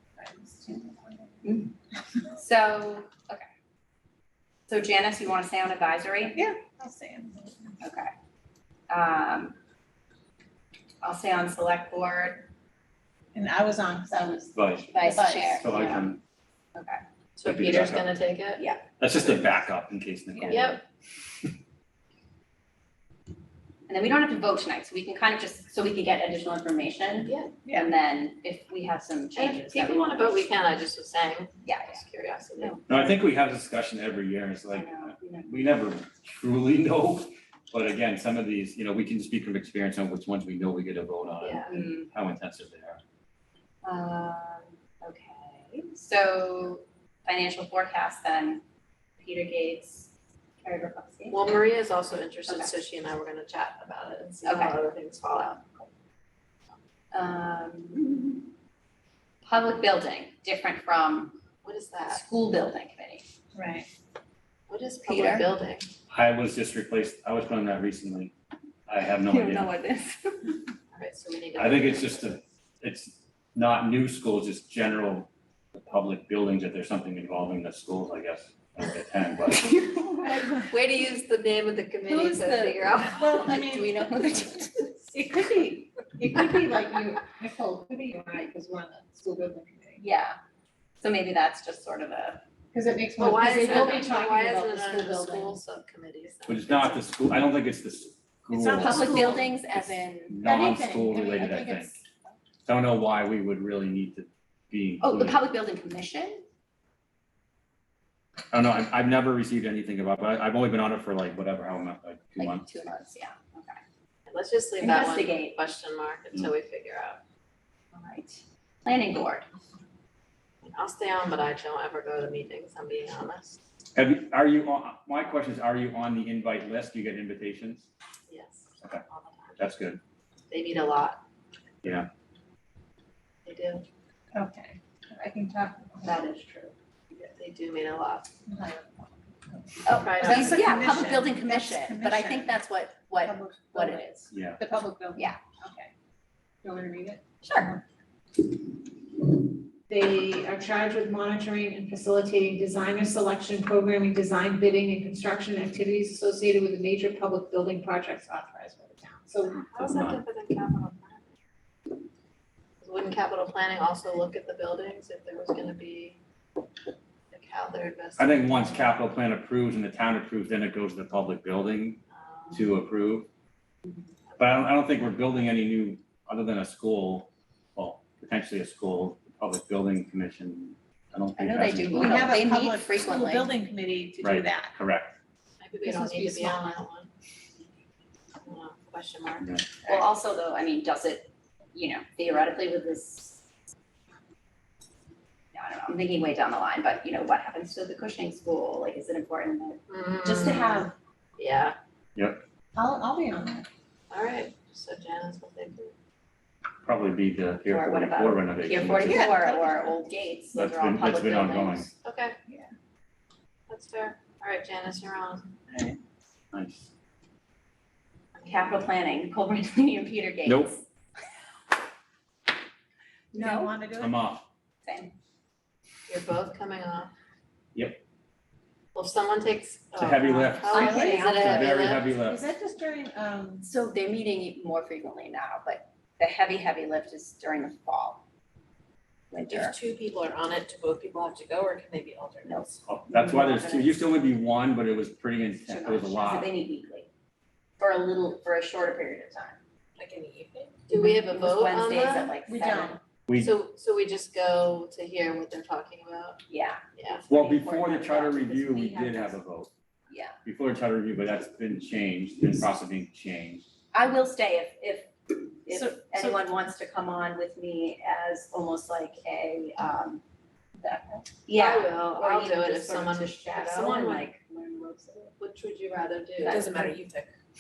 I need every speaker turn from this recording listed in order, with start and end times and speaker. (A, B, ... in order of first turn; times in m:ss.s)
0:00.2-0:01.4 A
0:01.4-0:01.7 B
0:02.3-0:03.4 B
0:04.7-0:06.5 B
0:06.4-0:07.8 A
0:07.8-0:08.1 B
0:08.9-0:09.6 B
0:11.0-0:12.5 B
0:13.3-0:15.6 A
0:14.5-0:16.2 C
0:14.9-0:16.2 B
0:16.8-0:17.0 B
0:17.4-0:18.6 D
0:17.4-0:18.1 C
0:18.6-0:18.8 B
0:19.0-0:20.8 C
0:20.4-0:20.6 A
0:20.5-0:20.8 D
0:23.9-0:30.5 B
0:27.3-0:27.5 D
0:27.6-0:27.9 A
0:29.4-0:33.1 D
0:31.6-0:32.0 B
0:32.6-0:32.8 B
0:32.9-0:43.0 C
0:34.7-0:35.5 B
0:41.4-0:41.7 D
0:41.7-0:42.1 B
0:43.8-0:48.6 B
0:49.2-0:50.1 B
0:50.6-0:51.5 B
0:51.3-0:55.6 D
0:52.5-0:52.8 B
0:54.4-0:55.9 B
0:57.1-0:58.5 B
0:59.4-1:01.4 B
1:01.6-1:02.2 D
1:02.1-1:03.3 B
1:03.6-1:03.9 A
1:04.7-1:05.9 D
1:05.0-1:05.5 B
1:06.1-1:08.3 C
1:08.9-1:09.7 C
1:09.3-1:10.6 B
1:10.9-1:12.3 D
1:11.6-1:19.8 C
1:20.2-1:23.5 D
1:22.0-1:25.0 B
1:23.2-1:24.0 A
1:25.1-1:30.0 A
1:30.0-1:30.4 B
1:31.0-1:32.4 B
1:32.7-1:35.6 A
1:33.2-1:37.1 D
1:33.4-1:34.1 B
1:36.5-1:42.0 C
1:38.5-1:39.5 A
1:38.7-1:40.6 B
1:40.4-1:42.4 A
1:42.7-1:45.4 C
1:45.0-1:46.5 B
1:48.5-1:52.7 C
1:52.4-1:53.8 B
1:54.3-1:57.2 D
1:54.8-1:55.6 B
1:57.9-1:59.4 B
2:00.6-2:03.6 D
2:04.0-2:07.9 C
2:08.3-2:09.6 D
2:09.6-2:10.0 C
2:10.5-2:11.2 D
2:13.5-2:13.8 D
2:14.3-2:16.2 A
2:16.0-2:16.7 B
2:17.2-2:18.3 D
2:18.5-2:22.6 A
2:19.8-2:24.3 B
2:19.9-2:20.9 D
2:23.2-2:25.9 A
2:24.3-2:24.6 C
2:25.2-2:25.4 B
2:26.6-2:27.2 A
2:27.4-2:27.8 B
2:29.9-2:39.6 A
2:39.5-2:41.2 D
2:39.8-2:40.2 C
2:42.8-2:46.2 D
2:47.3-2:48.9 D
2:48.2-2:52.0 C
2:52.1-2:52.7 D
2:52.5-2:53.3 C
2:54.4-3:02.4 C
3:01.4-3:03.5 B
3:01.9-3:04.8 A
3:04.2-3:05.2 C
3:05.6-3:07.1 D
3:05.8-3:06.8 A
3:08.4-3:10.1 D
3:09.9-3:13.5 B
3:15.5-3:19.8 B
3:19.9-3:20.9 D
3:20.2-3:20.9 A
3:20.4-3:20.9 B
3:21.4-3:21.8 D
3:22.2-3:22.4 C
3:22.7-3:23.7 A
3:24.1-3:25.9 D
3:26.8-3:29.4 C
3:27.7-3:31.9 B
3:29.0-3:30.0 A
3:30.5-3:31.9 C
3:32.0-3:32.4 D
3:32.5-3:32.7 A
3:33.7-3:35.6 D
3:36.5-3:36.9 C
3:38.4-3:40.8 B
3:40.5-3:40.7 C
3:43.3-3:43.8 B
3:43.3-3:44.2 A
3:44.0-3:44.4 C
3:44.8-3:45.2 B
3:46.1-3:47.1 D
3:47.8-3:48.0 C
3:49.0-3:52.1 D
3:50.0-3:52.4 C
3:50.7-3:51.7 B
3:50.7-3:53.7 A
3:53.6-3:58.2 B
3:59.3-3:59.8 B
3:59.5-4:02.8 D
4:02.4-4:04.1 B
4:02.9-4:06.5 C
4:05.7-4:07.1 B
4:07.8-4:09.6 B
4:10.0-4:12.3 D
4:11.0-4:13.0 B
4:12.5-4:13.0 A
4:13.3-4:13.5 C
4:13.4-4:16.4 D
4:16.5-4:19.4 B
4:17.0-4:17.2 D
4:17.3-4:19.7 C
4:20.1-4:20.4 B
4:20.4-4:23.6 C
4:23.9-4:30.2 B
4:25.7-4:26.4 A
4:30.8-4:31.3 A
4:31.5-4:35.4 B
4:31.5-4:34.3 D
4:35.4-4:37.3 D
4:36.4-4:37.0 B